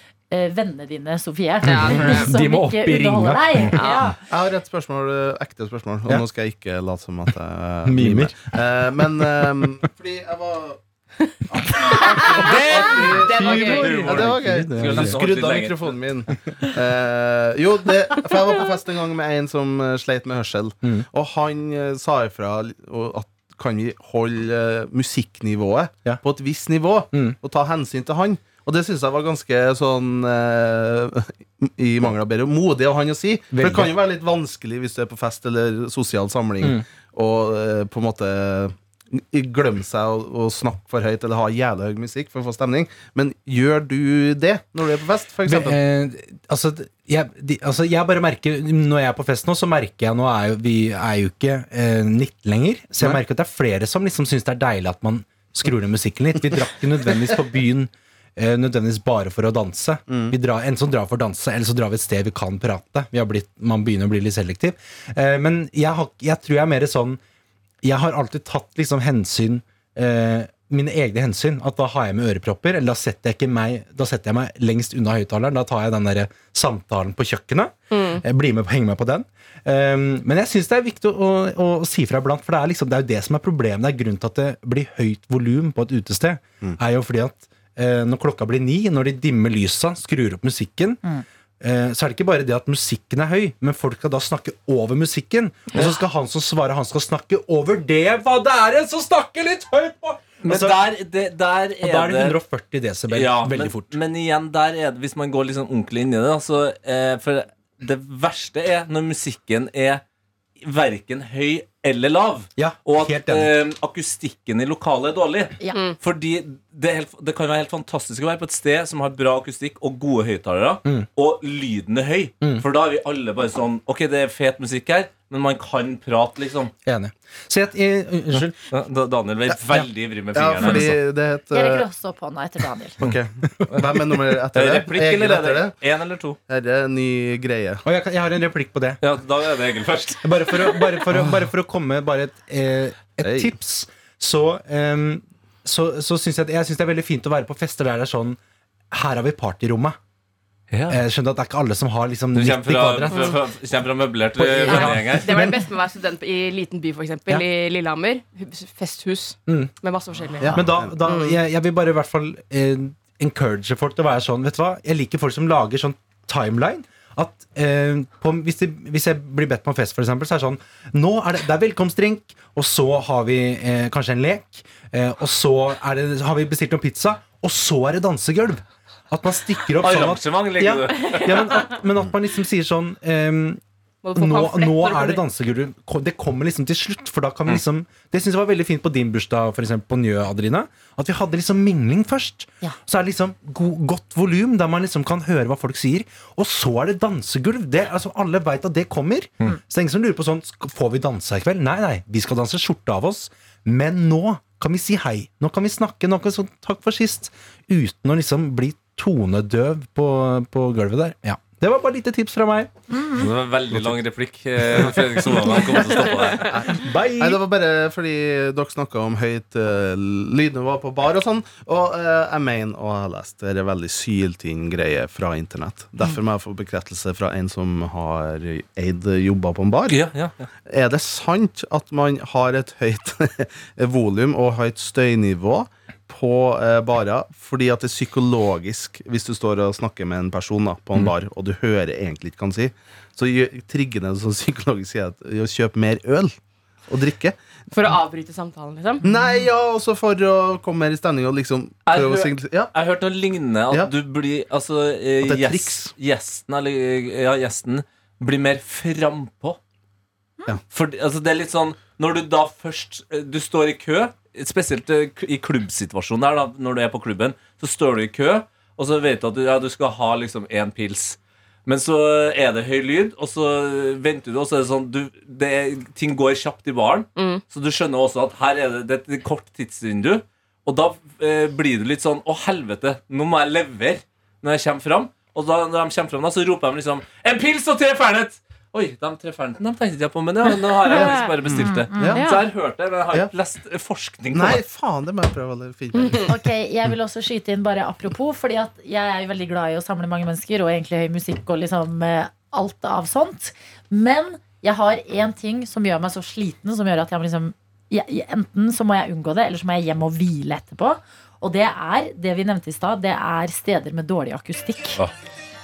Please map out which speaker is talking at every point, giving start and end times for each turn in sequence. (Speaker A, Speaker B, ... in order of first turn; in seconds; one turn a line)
Speaker A: 0.3-4.1
Speaker B: 1.6-2.3
Speaker C: 1.7-3.7
Speaker B: 3.7-4.1
Speaker D: 4.2-10.8
Speaker C: 7.8-8.5
Speaker D: 11.5-45.8
Speaker B: 11.8-14.2
Speaker E: 12.3-15.8
Speaker C: 13.5-15.2
Speaker C: 33.5-33.9
Speaker C: 45.4-67.2
Speaker D: 60.1-60.3
Speaker C: 67.8-91.0
Speaker B: 77.9-78.2
Speaker C: 91.6-100.9
Speaker E: 100.4-102.4
Speaker C: 101.8-103.9
Speaker E: 103.1-110.0
Speaker E: 110.6-126.7
Speaker C: 112.6-113.5
Speaker C: 126.8-128.5
Speaker E: 128.3-131.0
Speaker D: 130.3-131.8
Speaker A: 131.5-133.0
Speaker D: 133.0-135.7
Speaker E: 134.5-136.4
Speaker D: 136.5-137.8
Speaker C: 137.8-139.0
Speaker E: 139.0-141.1
Speaker C: 140.2-148.4
Speaker D: 143.2-143.5
Speaker C: 148.9-150.0
Speaker E: 150.7-151.0
Speaker C: 150.9-153.3
Speaker E: 152.3-155.5
Speaker C: 154.4-155.6
Speaker B: 154.7-161.4
Speaker D: 160.4-161.0
Speaker C: 160.5-183.6
Speaker E: 179.8-181.5
Speaker B: 184.0-185.2
Speaker C: 184.1-212.7
Speaker A: 212.9-213.2
Speaker E: 213.2-216.5
Speaker D: 216.4-230.0
Speaker C: 216.7-217.4
Speaker E: 229.9-230.5
Speaker D: 230.7-246.3
Speaker D: 246.9-247.4
Speaker B: 247.7-249.0
Speaker D: 249.0-252.7
Speaker E: 251.8-259.6
Speaker D: 255.2-255.9
Speaker E: 260.7-294.6
Speaker B: 277.1-277.4
Speaker B: 290.9-291.3
Speaker D: 290.9-292.2
Speaker A: 291.6-292.2
Speaker B: 292.1-292.4
Speaker D: 294.3-296.3
Speaker A: 296.3-315.0